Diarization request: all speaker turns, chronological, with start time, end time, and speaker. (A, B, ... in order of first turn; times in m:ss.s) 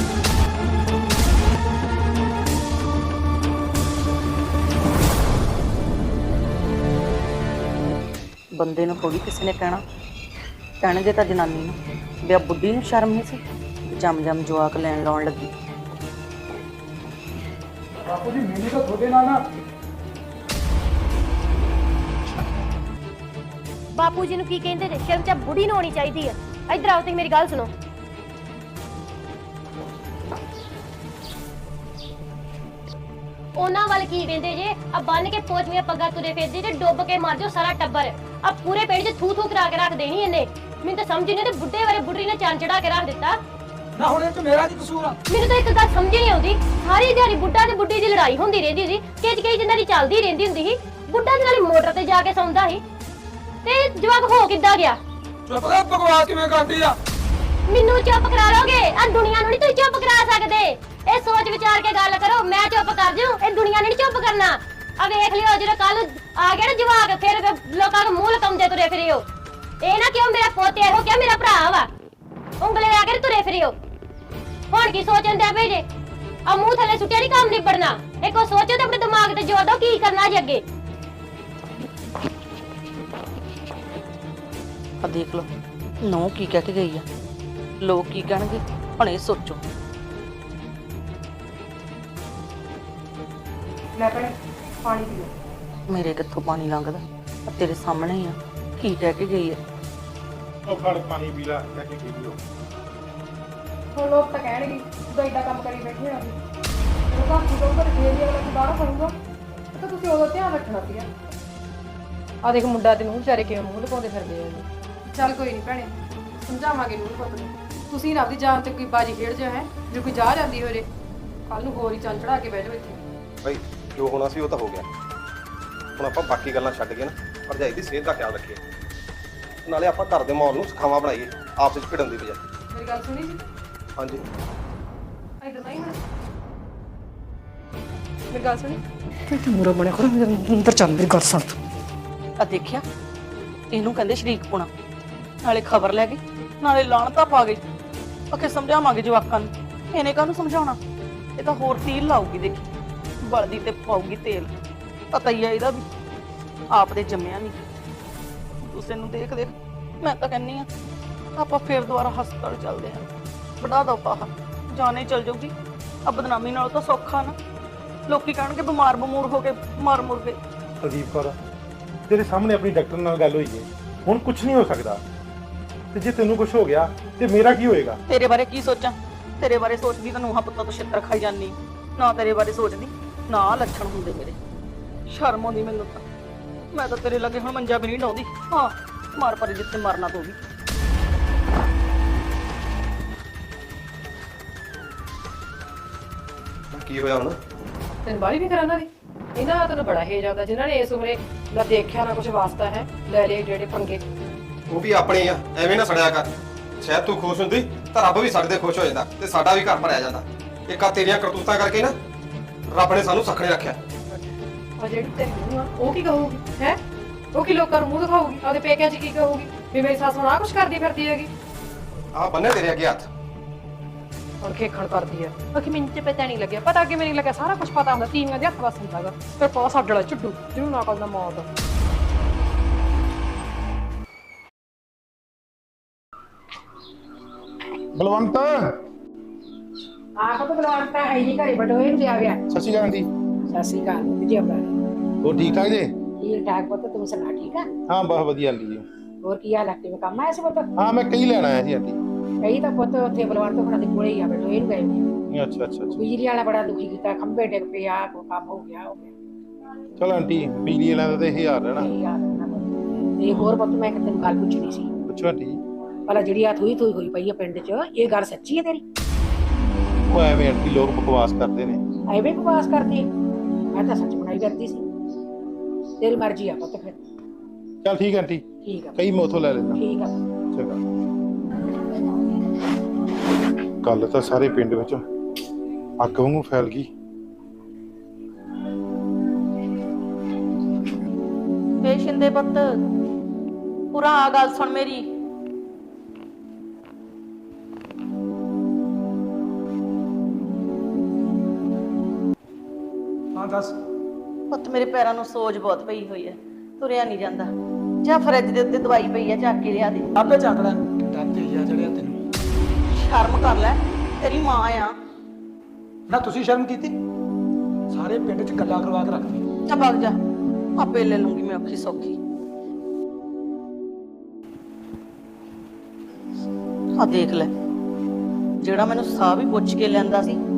0:08.6-0:09.8 A
0:10.8-0:15.5 A
0:18.0-0:19.4 B
0:23.9-0:27.7 C
0:33.6-0:43.4 C
0:44.0-0:45.2 B
0:45.3-0:52.8 C
0:53.6-0:55.0 C
0:55.5-0:57.0 B
0:57.7-1:09.2 C
1:09.8-1:11.9 C
1:12.6-1:13.8 C
1:14.7-1:15.8 C
1:16.4-1:20.6 C
1:25.0-1:25.5 A
1:26.0-1:27.0 A
1:27.8-1:29.6 A
1:33.9-1:35.3 D
1:35.9-1:39.6 A
1:40.6-1:42.4 E
1:43.9-1:46.3 D
1:47.1-1:49.1 D
1:49.7-1:51.1 D
1:52.4-2:00.8 D
2:01.5-2:03.0 D
2:03.4-2:04.8 F
2:06.0-2:08.6 F
2:09.6-2:12.4 F
2:12.7-2:13.4 D
2:15.4-2:16.0 D
2:18.3-2:21.5 D
2:22.4-2:22.8 A
2:23.7-2:24.7 A
2:25.4-2:27.6 A
2:28.3-2:30.8 A
2:31.4-2:34.5 A
2:35.1-2:35.8 A
2:36.7-2:37.6 A
2:38.6-2:40.7 A
2:41.4-2:43.1 A
2:43.6-2:45.5 A
2:46.0-2:47.4 A
2:48.1-2:50.4 A
2:50.8-2:51.4 E
2:52.1-2:55.0 E
2:55.9-2:58.0 E
2:58.1-3:04.4 A
3:05.1-3:06.0 A
3:06.7-3:10.4 A
3:16.7-3:17.4 F
3:18.0-3:24.0 D
3:24.7-3:31.9 F
3:32.7-3:33.8 F
3:34.8-3:36.8 D
3:37.3-3:41.3 D
3:42.1-3:43.1 F
3:44.4-3:51.5 D
3:57.9-3:58.7 E
4:00.2-4:02.4 G
4:02.5-4:03.1 E
4:03.5-4:04.6 G
4:05.2-4:05.9 E
4:06.2-4:07.7 G
4:07.9-4:08.8 E
4:09.2-4:10.7 G
4:10.8-4:12.0 E
4:12.4-4:15.0 G
4:15.3-4:16.1 E
4:15.9-4:19.1 G
4:20.0-4:21.9 E
4:21.7-4:24.9 G
4:22.9-4:23.4 E
4:25.1-4:25.6 E
4:26.1-4:28.8 G
4:30.1-4:31.8 E
4:32.1-4:33.1 G
4:33.7-4:34.8 G
4:36.0-4:37.0 G
4:37.8-4:38.4 E
4:38.6-4:39.0 G
4:39.0-4:39.8 E
4:39.8-4:40.1 G
4:40.5-4:40.8 E
4:43.8-4:45.0 E
4:46.0-4:46.9 E
4:51.8-4:52.6 A
4:53.9-4:55.0 A
5:03.3-5:03.8 B
5:04.5-5:07.5 A
5:08.0-5:10.1 A
5:10.1-5:12.2 B
5:12.9-5:14.9 A
5:16.1-5:16.9 B
5:17.9-5:19.4 B
5:19.7-5:20.2 A
5:20.8-5:22.2 A
5:27.0-5:27.5 A
5:28.6-5:30.4 A